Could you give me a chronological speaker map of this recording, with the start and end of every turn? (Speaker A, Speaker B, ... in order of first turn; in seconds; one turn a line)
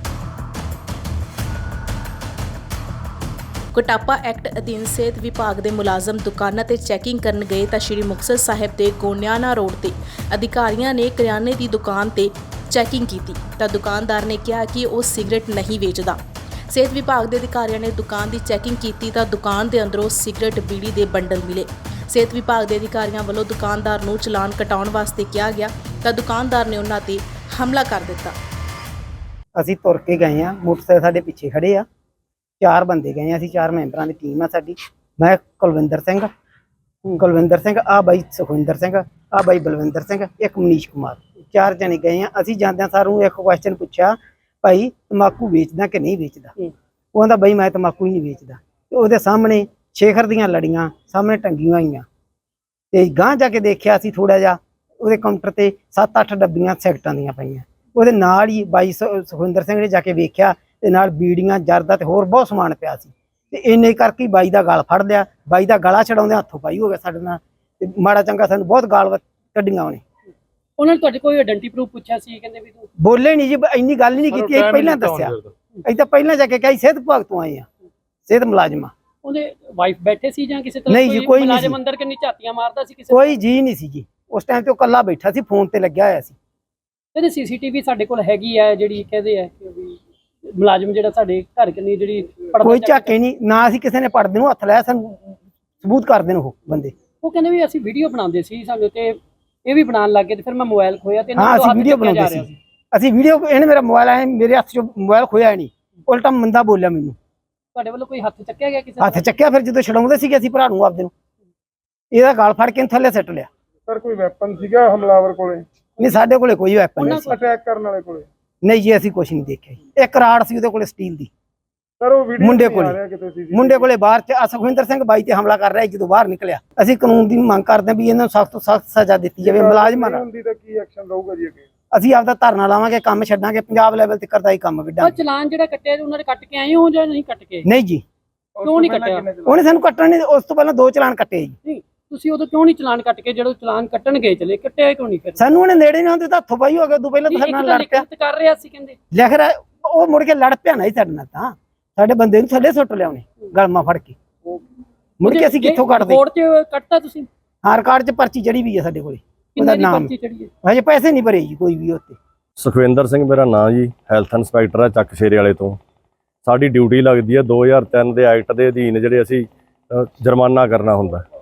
Speaker A: 3.7-28.4
Speaker B: 29.6-31.9
Speaker B: 32.6-36.3
Speaker B: 37.0-46.6
Speaker B: 47.1-52.0
Speaker B: 52.9-70.0
Speaker C: 70.8-72.9
Speaker B: 73.0-77.7
Speaker B: 78.3-78.9
Speaker C: 79.2-83.4
Speaker B: 80.9-81.8
Speaker B: 83.1-86.3
Speaker C: 87.2-90.0
Speaker C: 90.5-93.1
Speaker B: 92.6-96.9
Speaker C: 97.2-102.6
Speaker B: 101.4-107.2
Speaker C: 107.8-109.3
Speaker B: 109.0-111.1
Speaker B: 112.1-113.5
Speaker D: 113.9-115.7
Speaker B: 116.0-117.4
Speaker C: 117.0-117.4
Speaker D: 117.2-118.3
Speaker B: 118.6-121.3
Speaker D: 122.0-123.9
Speaker B: 122.4-123.0
Speaker B: 123.5-130.2
Speaker D: 129.4-131.7
Speaker B: 131.9-135.2
Speaker C: 135.0-137.7
Speaker B: 137.6-138.0
Speaker D: 138.6-139.6
Speaker C: 138.6-139.2
Speaker B: 139.5-141.6
Speaker C: 141.6-145.4
Speaker B: 145.4-148.1
Speaker C: 147.3-149.0
Speaker B: 149.1-154.2
Speaker B: 155.2-156.2
Speaker C: 155.2-157.3
Speaker B: 157.6-162.2
Speaker C: 159.6-160.5
Speaker E: 162.6-165.8
Speaker E: 166.4-171.2